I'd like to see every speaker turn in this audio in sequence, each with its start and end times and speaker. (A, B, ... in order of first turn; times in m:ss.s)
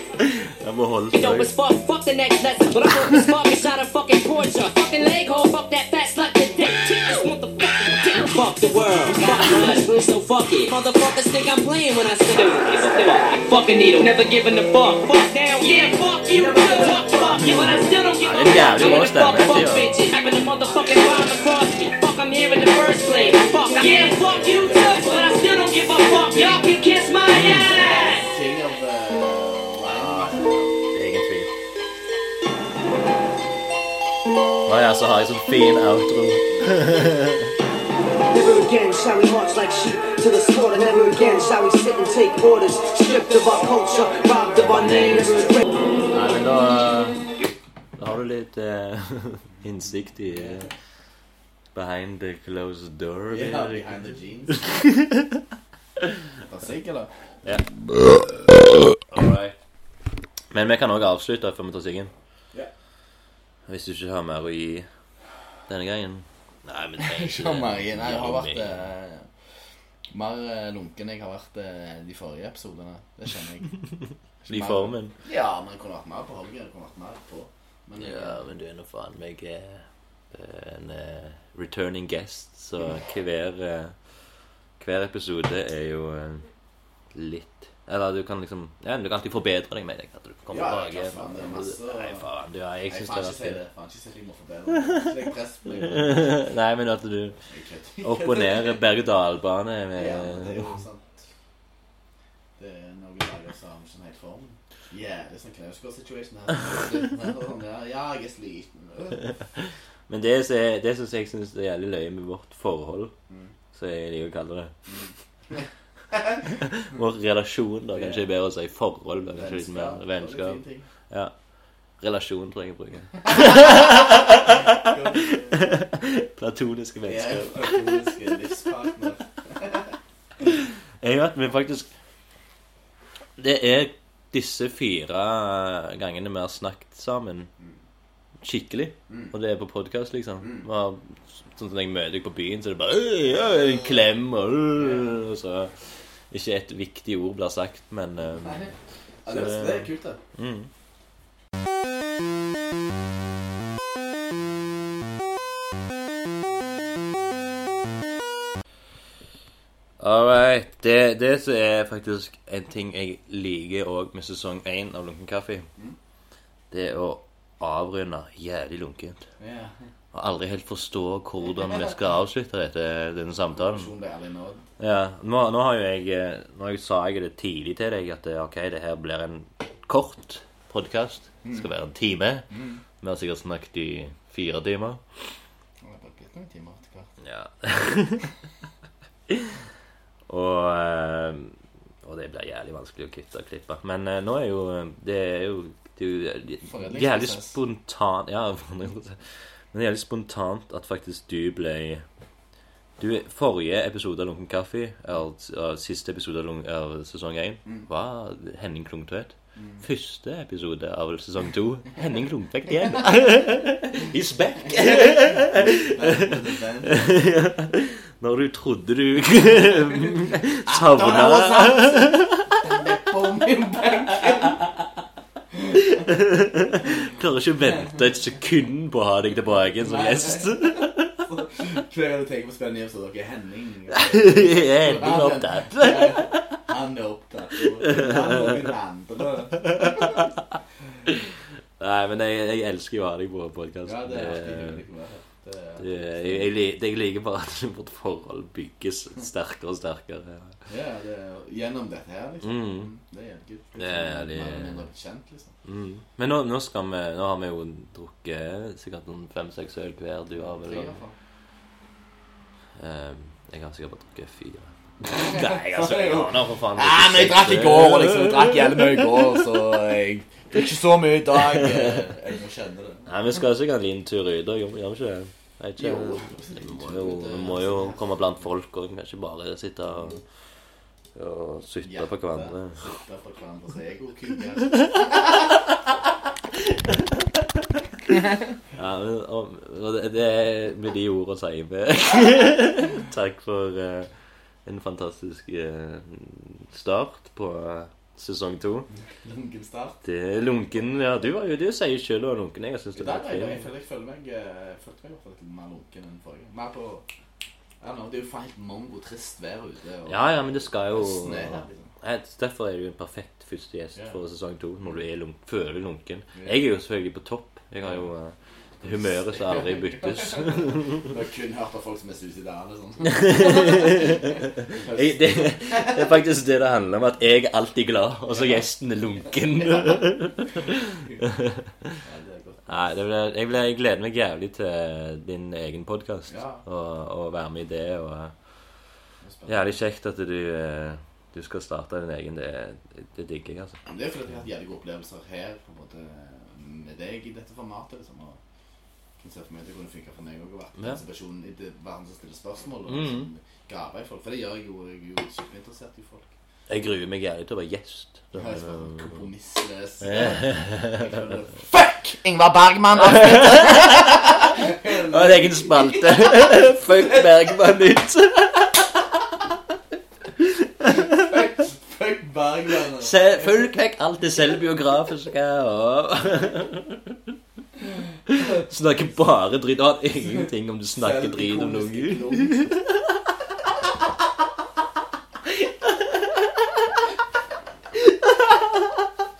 0:00.2-0:01.5 A
0:01.1-0:28.2 B
0:16.4-0:17.5 C
0:18.2-0:19.8 A
0:24.4-0:25.0 D
0:27.3-0:27.7 A
0:27.8-0:30.4 D
0:29.8-0:31.5 A
0:34.6-0:37.5 A
0:36.5-0:36.8 D
0:38.3-0:45.6 C
0:44.7-0:45.3 A
0:46.1-0:47.2 A
0:48.0-0:50.7 A
0:49.5-0:50.7 D
0:51.7-0:54.0 A
0:53.3-0:54.7 D
0:54.6-0:55.4 A
0:56.4-0:57.1 D
0:59.0-0:59.6 A
1:00.5-1:02.1 A
1:03.7-1:04.9 A
1:05.7-1:08.9 A
1:07.0-1:09.3 D
1:10.1-1:13.8 D
1:14.4-1:18.4 D
1:14.5-1:15.1 A
1:18.0-1:24.0 A
1:24.8-1:26.5 A
1:27.1-1:33.6 A
1:30.5-1:32.2 D
1:32.9-1:36.4 D
1:34.7-1:35.1 A
1:35.7-1:37.4 A
1:37.5-1:38.8 D
1:38.0-1:40.7 A
1:39.9-1:41.3 D
1:42.6-1:49.4 D
1:49.5-1:53.1 A
1:53.7-1:54.7 A
1:54.9-1:55.6 D
1:56.1-1:56.4 D
1:56.4-2:01.3 A
1:57.9-1:58.2 D
1:59.3-2:00.8 D
2:02.0-2:08.1 A
2:03.5-2:03.8 D
2:04.8-2:05.6 D
2:07.0-2:09.9 D
2:10.5-2:11.9 A
2:13.4-2:17.5 A
2:18.4-2:25.7 A
2:19.1-2:19.3 D
2:20.4-2:20.7 D
2:24.8-2:25.1 D
2:26.3-2:28.6 A
2:28.4-2:28.7 D
2:29.2-2:30.2 D
2:29.3-2:30.7 A
2:40.0-2:45.7 A
2:46.7-2:49.2 A
2:49.4-2:49.8 D
2:50.1-2:53.9 A
2:53.6-2:54.6 D
2:54.8-3:02.5 A
3:01.4-3:01.7 D
3:02.5-3:02.8 D
3:03.0-3:05.0 A
3:05.8-3:07.1 D
3:07.2-3:08.3 A
3:09.3-3:09.6 A
3:10.3-3:22.0 A
3:16.6-3:17.6 D
3:23.0-3:42.6 A
3:29.5-3:29.8 D
3:34.9-3:37.2 D
3:40.6-3:44.7 D
3:45.8-3:51.1 A
3:49.8-4:00.2 D
3:53.9-3:56.5 A
3:57.8-3:58.6 A
3:59.7-4:00.2 A
4:01.8-4:04.8 A
4:03.8-4:06.5 D
4:05.8-4:10.6 A
4:10.7-4:15.5 D
4:12.4-4:12.9 A
4:13.8-4:14.8 A
4:15.6-4:21.0 A
4:20.4-4:21.1 D
4:22.8-4:28.6 A
4:25.2-4:33.1 D
4:31.5-4:31.9 A
4:33.1-4:40.2 A
4:35.8-4:38.1 D
4:41.1-4:42.8 A
4:41.8-4:45.4 D
4:46.7-4:47.8 A
4:48.7-4:54.1 A
4:54.6-4:58.9 A
4:59.1-5:00.0 D
5:00.0-5:03.6 A
5:02.9-5:07.0 D
5:07.8-5:11.9 D
5:10.1-5:21.0 A
5:16.3-5:16.6 D
5:18.9-5:26.2 D
5:23.0-5:32.0 A
5:28.3-5:28.6 D
5:29.8-5:30.1 D
5:32.0-5:32.9 D
5:32.7-5:38.3 A
5:36.3-5:36.6 D
5:39.2-5:39.7 D
5:39.5-5:43.8 A
5:43.8-5:48.4 D
5:49.2-5:56.3 D
5:52.9-5:53.3 A
5:56.7-5:59.3 A
5:58.3-6:07.4 D
6:00.0-6:01.0 A
6:03.0-6:04.3 A
6:04.8-6:09.3 A
6:10.4-6:11.0 A
6:10.8-6:13.3 D
6:13.0-6:17.3 A
6:18.3-6:23.2 A
6:21.0-6:22.8 D
6:25.8-6:26.8 A
6:28.0-6:29.0 A